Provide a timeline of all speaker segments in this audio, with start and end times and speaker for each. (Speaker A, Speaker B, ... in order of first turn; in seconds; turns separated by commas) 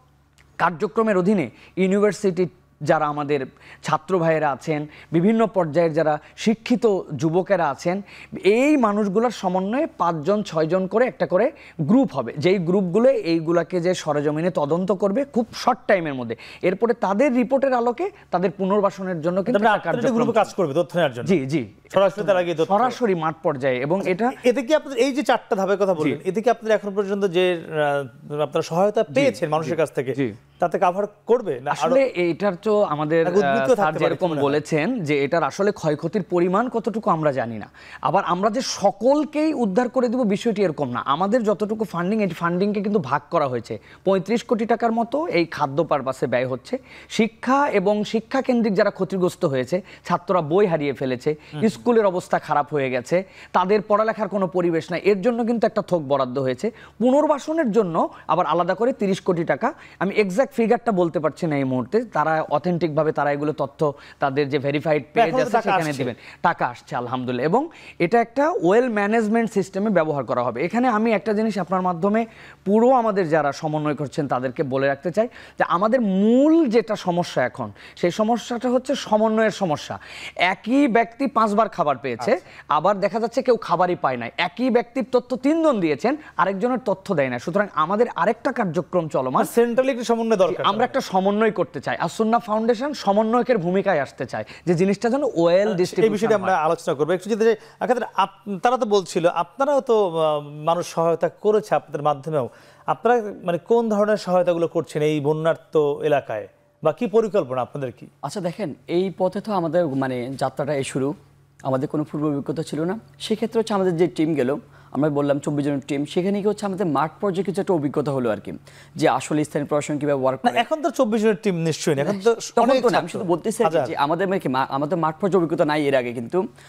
Speaker A: 0.6-20.5, Speaker B: 19.5-21.3, Speaker A: 21.2-24.4, Speaker B: 21.9-23.0, Speaker B: 24.3-32.0, Speaker A: 29.1-30.4, Speaker A: 31.7-89.5, Speaker B: 33.2-34.6, Speaker B: 65.2-66.1, Speaker B: 89.4-91.0, Speaker A: 90.5-96.5, Speaker B: 95.7-108.1, Speaker C: 108.2-111.1, Speaker C: 111.7-120.7, Speaker B: 120.4-123.9, Speaker C: 122.0-126.4